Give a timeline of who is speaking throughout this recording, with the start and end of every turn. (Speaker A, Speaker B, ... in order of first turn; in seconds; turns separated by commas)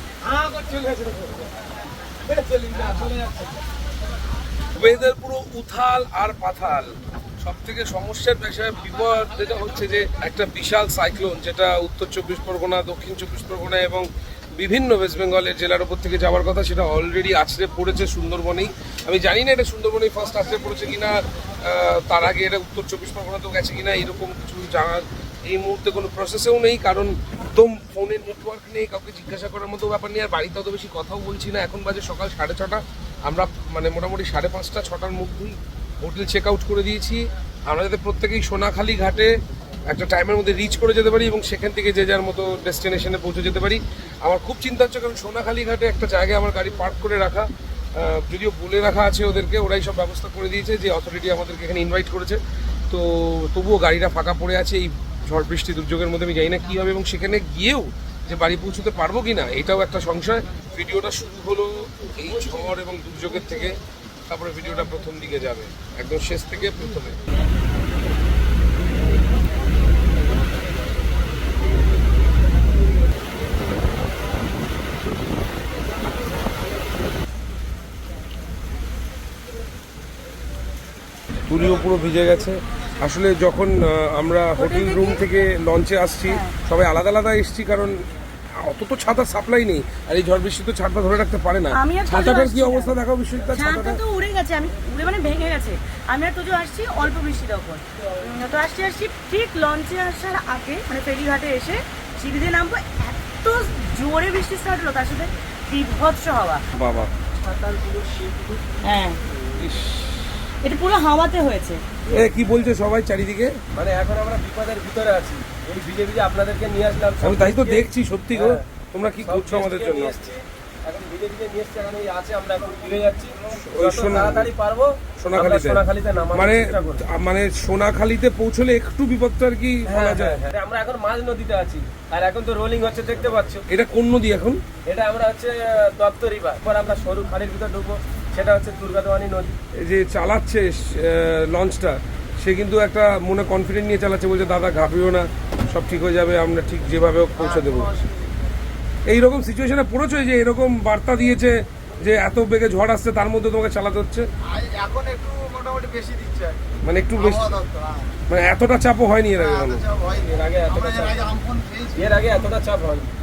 Speaker A: 0.2-1.4, Speaker A: 2.2-3.5, Speaker B: 4.7-6.9, Speaker B: 7.4-39.3, Speaker B: 39.9-63.8, Speaker B: 64.3-67.2, Speaker B: 81.5-88.0, Speaker C: 84.6-85.2, Speaker C: 86.3-86.5, Speaker B: 88.6-94.0, Speaker C: 91.7-93.0, Speaker C: 93.5-106.6, Speaker B: 106.7-107.1, Speaker A: 107.4-108.5, Speaker C: 108.8-109.2, Speaker B: 109.6-110.4, Speaker C: 110.6-111.8, Speaker B: 112.1-113.6, Speaker A: 113.7-118.6, Speaker B: 117.2-120.1, Speaker A: 119.2-127.0, Speaker B: 123.5-124.5, Speaker B: 125.2-125.8, Speaker B: 126.3-130.4, Speaker A: 129.9-133.6, Speaker B: 133.7-134.6, Speaker A: 134.9-139.6, Speaker B: 139.8-148.1, Speaker B: 149.1-154.3, Speaker D: 154.6-156.6, Speaker B: 156.8-157.7, Speaker D: 157.8-158.1, Speaker B: 158.3-160.0, Speaker A: 160.1-163.1